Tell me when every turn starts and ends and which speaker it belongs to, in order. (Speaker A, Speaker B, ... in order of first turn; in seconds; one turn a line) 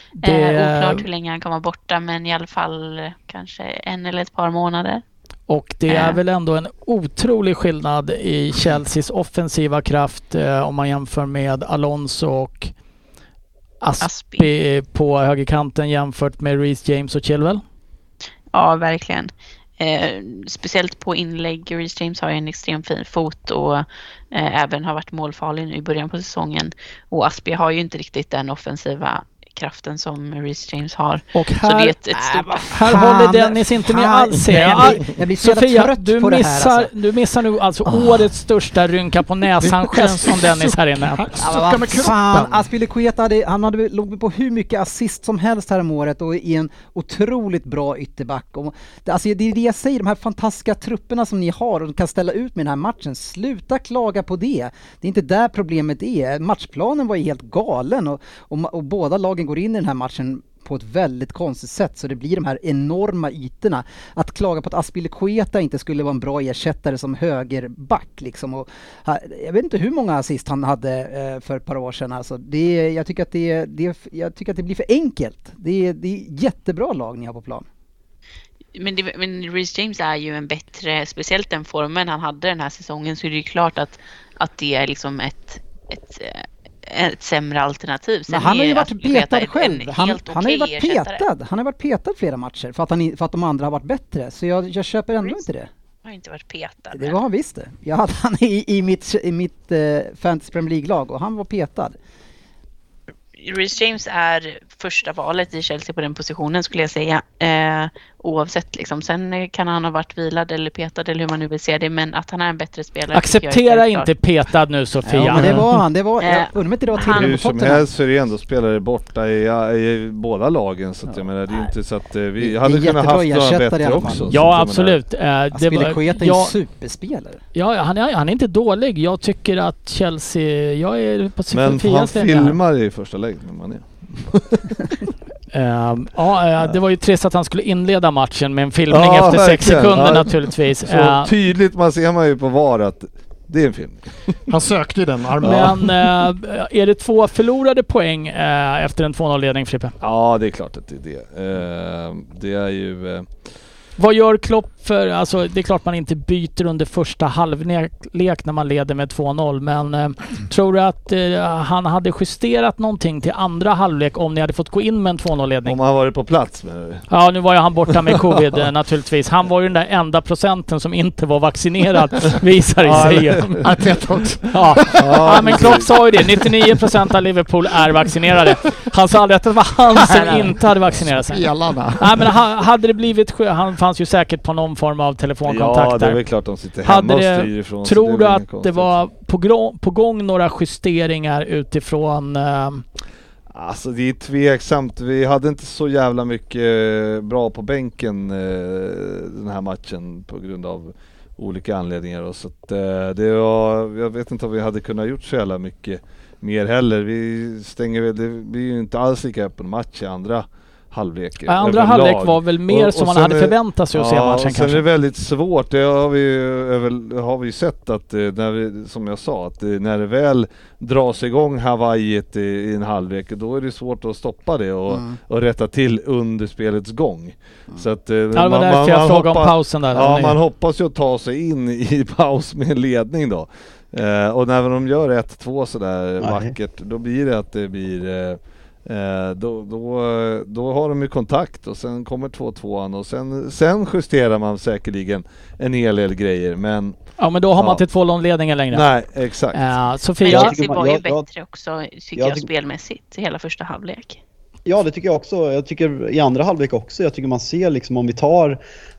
Speaker A: 0.2-1.0
Speaker B: 0.2-5.0
Speaker A: 5.5-12.7
Speaker B: 5.9-6.2
Speaker A: 13.8-17.6
Speaker B: 14.0-14.5
Speaker B: 18.5-32.8
Speaker A: 31.3-31.9
Speaker C: 32.2-36.9
Speaker A: 32.5-42.0
Speaker D: 39.6-42.6
Speaker C: 41.4-77.6
Speaker B: 78.7-91.2
Speaker C: 88.3-95.7
Speaker B: 96.0-97.2
Speaker C: 96.9-102.0
Speaker B: 103.4-114.1
Speaker A: 113.1-115.7
Speaker C: 115.0-117.9
Speaker B: 116.2-117.4
Speaker E: 117.1-125.0
Speaker C: 121.0-121.7
Speaker C: 122.4-124.3
Speaker A: 124.3-126.5
Speaker C: 125.5-127.4
Speaker A: 127.5-132.6
Speaker E: 131.5-134.7
Speaker A: 135.5-141.3
Speaker E: 138.9-144.3
Speaker D: 144.5-145.8
Speaker E: 145.4-145.7
Speaker A: 145.4-149.9
Speaker E: 150.0-153.3
Speaker A: 154.0-165.8
Speaker E: 165.7-167.1
Speaker A: 167.1-173.7
Speaker E: 172.8-173.6
Speaker D: 173.6-175.2
Speaker A: 174.5-181.5
Speaker E: 174.9-175.9
Speaker D: 180.2-180.5
Speaker D: 181.1-182.3
Speaker A: 182.0-186.2
Speaker E: 185.5-189.0
Speaker A: 186.8-192.8
Speaker E: 193.5-246.9
Speaker A: 211.4-214.8
Speaker C: 224.9-225.2
Speaker A: 228.3-230.4
Speaker F: 236.2-236.5
Speaker A: 247.2-248.9
Speaker E: 247.6-247.8
Speaker E: 248.7-249.8
Speaker A: 249.5-250.5
Speaker B: 250.2-254.2
Speaker F: 250.3-251.2
Speaker F: 252.2-252.5
Speaker F: 254.6-258.6